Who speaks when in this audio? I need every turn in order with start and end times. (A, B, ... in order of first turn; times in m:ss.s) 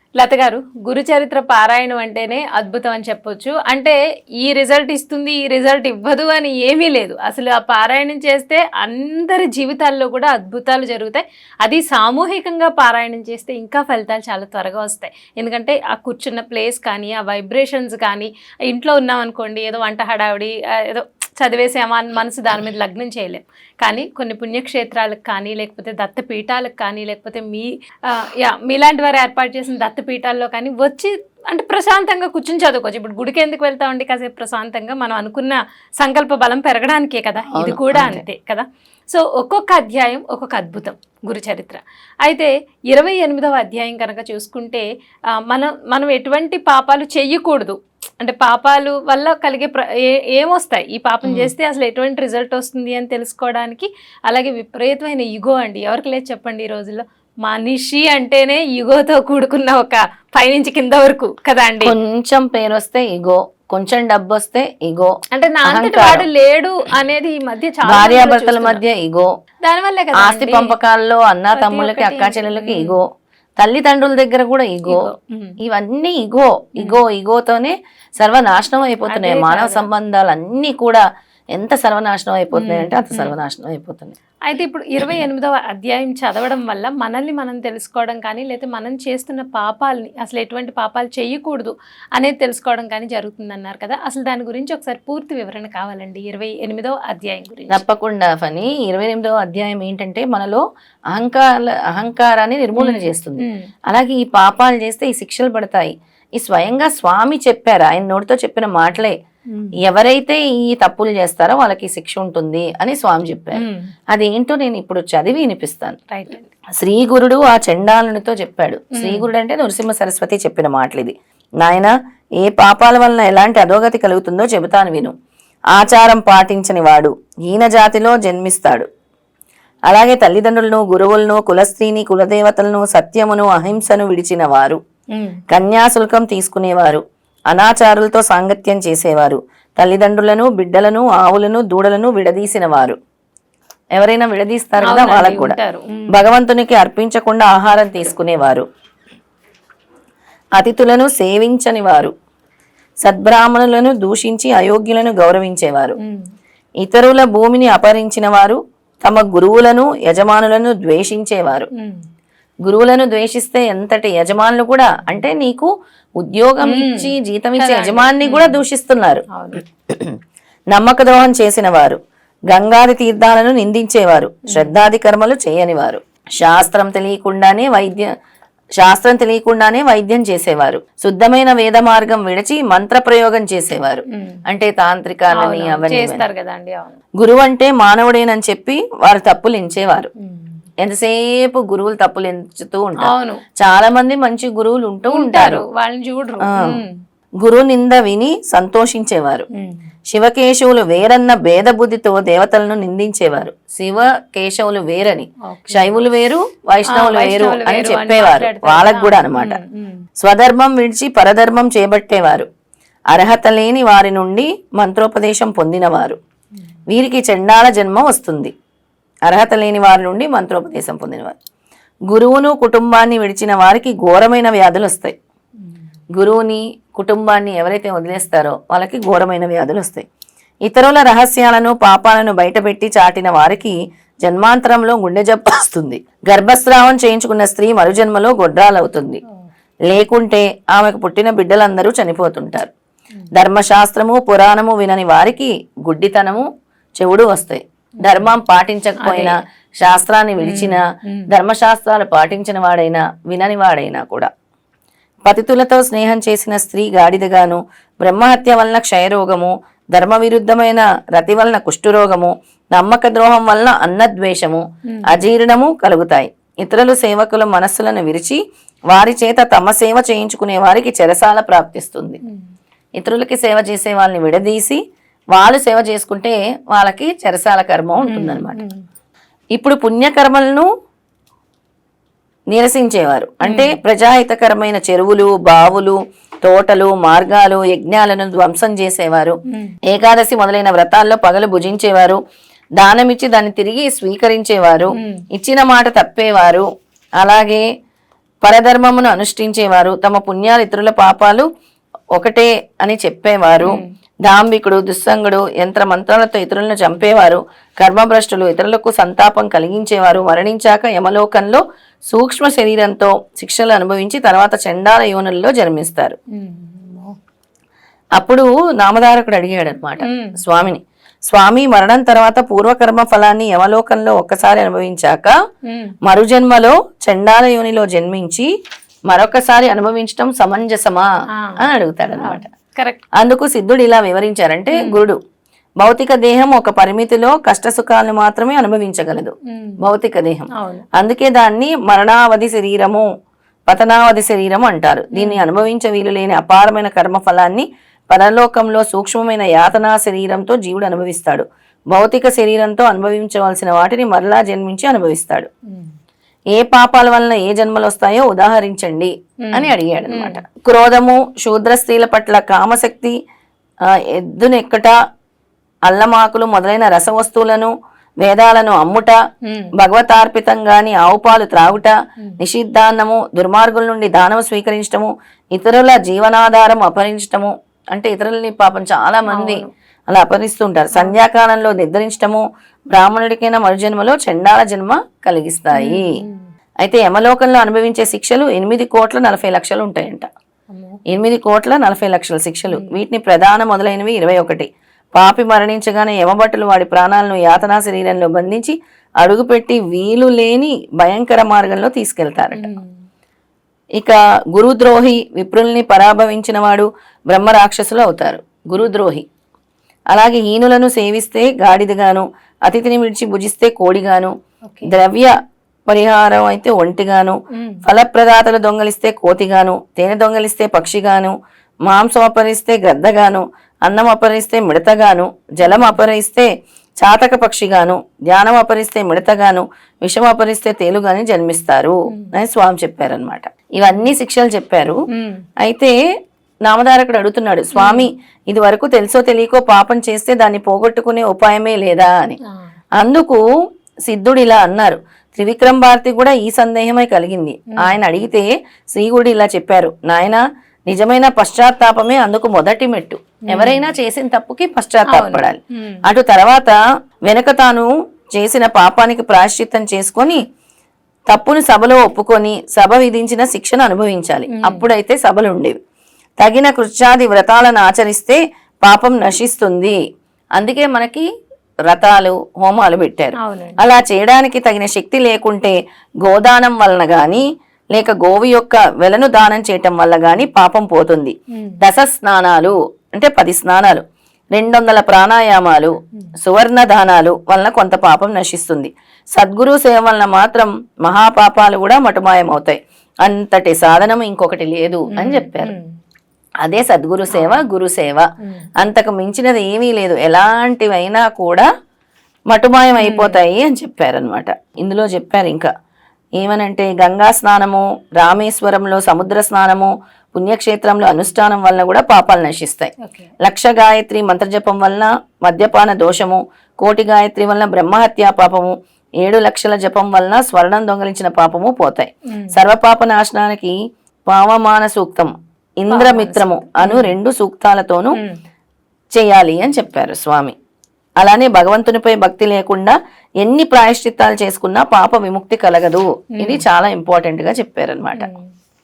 0:00.2-0:44.8 A
0:37.4-0:38.2 B
0:45.5-1:01.9 A
0:51.2-0:51.5 B
1:01.8-1:06.2 B
1:05.3-1:08.8 A
1:07.8-1:09.3 B
1:09.6-1:10.7 A
1:10.2-1:13.1 B
1:11.5-1:13.0 A
1:13.6-1:15.1 B
1:14.9-1:15.6 A
1:15.6-1:24.1 B
1:19.1-1:19.8 A
1:22.5-1:23.4 A
1:24.4-1:37.8 A
1:37.7-1:49.2 B
1:42.8-1:43.6 A
1:49.8-1:56.0 B
1:53.5-1:53.9 A
1:56.1-1:56.5 A
1:56.8-2:05.1 B
1:59.0-1:59.2 A
2:05.7-2:08.9 B
2:09.9-2:14.8 B
2:15.1-2:15.4 A
2:15.5-2:23.0 B
2:23.9-2:25.6 B
2:24.8-2:26.2 A
2:26.1-2:28.6 B
2:30.6-2:32.1 B
2:33.0-2:36.0 B
2:36.8-2:41.7 B
2:41.7-2:42.0 A
2:42.6-2:49.2 B
2:46.6-2:48.6 A
2:49.3-2:49.6 A
2:49.9-2:50.2 B
2:50.7-2:52.0 B
2:52.5-2:58.1 B
2:58.8-3:06.2 B
3:04.1-3:04.4 A
3:05.4-3:07.0 A
3:07.2-3:10.1 B
3:10.2-3:10.6 A
3:10.8-3:15.6 B
3:13.0-3:13.4 A
3:15.1-3:16.9 A
3:16.4-3:16.8 B
3:17.4-3:19.5 B
3:19.5-3:19.8 A
3:20.1-3:29.6 B
3:25.5-3:25.9 A
3:26.9-3:30.0 A
3:30.2-3:32.5 B
3:33.1-3:36.2 B
3:36.9-3:38.5 B
3:39.2-3:41.4 B
3:42.1-3:45.1 B
3:46.1-3:50.0 B
3:50.6-3:59.2 B
3:59.9-4:02.7 B
4:03.3-4:06.4 B
4:07.0-4:14.3 B
4:08.0-4:08.3 A
4:09.0-4:09.4 A
4:10.4-4:11.3 A
4:15.2-4:32.2 B
4:24.9-4:25.2 A
4:33.0-4:34.8 B
4:35.3-4:38.6 B
4:38.0-4:38.8 A
4:39.5-4:40.7 B
4:42.5-4:49.4 B
4:43.4-4:43.8 A
4:49.5-4:49.8 A
4:49.9-4:52.2 B
4:52.8-4:56.6 B
4:55.0-4:55.2 A
4:57.2-4:57.6 B
4:58.4-5:01.4 B
5:02.1-5:16.2 B
5:16.3-5:17.2 A
5:18.2-5:25.3 B
5:20.0-5:20.4 A
5:25.7-5:25.9 A
5:26.0-5:28.5 B
5:29.1-5:31.1 B
5:31.3-5:31.6 A
5:31.6-5:32.5 B
5:32.2-5:33.0 A
5:33.2-5:35.2 B
5:34.7-5:35.0 A
5:35.8-5:43.0 B
5:39.5-5:39.8 A
5:40.5-5:40.8 A
5:43.7-5:55.5 B
5:45.1-5:45.4 A
5:55.7-5:55.9 A
5:56.5-6:03.2 B
5:59.4-6:00.4 A
6:03.8-6:05.0 B
6:05.9-6:09.2 B
6:09.4-6:09.7 A
6:09.8-6:26.1 B
6:19.3-6:19.7 A
6:25.7-6:26.5 A
6:26.8-6:30.3 B
6:30.7-6:31.0 A
6:31.1-6:42.7 B
6:42.5-6:43.0 A
6:44.0-6:49.2 B
6:50.1-6:54.3 B
6:54.6-6:54.9 A
6:54.8-6:55.3 B
6:55.9-7:01.3 B
6:57.5-6:57.8 A
7:01.8-7:15.0 B
7:05.6-7:06.0 A
7:12.1-7:12.4 A
7:13.9-7:14.1 A
7:15.1-7:15.4 A
7:15.6-7:15.9 B
7:16.6-7:22.4 B
7:17.7-7:18.1 A
7:23.0-7:23.4 B
7:24.0-7:40.4 B
7:33.5-7:33.9 A
7:35.1-7:36.0 A
7:41.3-7:45.8 B
7:44.5-7:44.9 A
7:46.4-7:50.0 B
7:50.6-7:51.2 B
7:51.9-8:04.0 B
7:53.4-7:53.8 A
8:01.5-8:01.8 A
8:04.5-8:15.7 B
8:15.1-8:15.9 A
8:16.6-8:18.3 B
8:17.3-8:17.6 A
8:18.4-8:18.7 A
8:18.8-8:21.6 B
8:22.5-8:25.7 B
8:23.0-8:23.4 A
8:26.4-8:43.7 B
8:33.0-8:33.3 A
8:42.3-8:42.5 A
8:44.3-8:48.2 B
8:45.9-8:47.1 A
8:49.1-8:50.5 B
8:51.2-8:58.3 B
8:56.4-8:56.6 A
8:58.2-8:58.5 A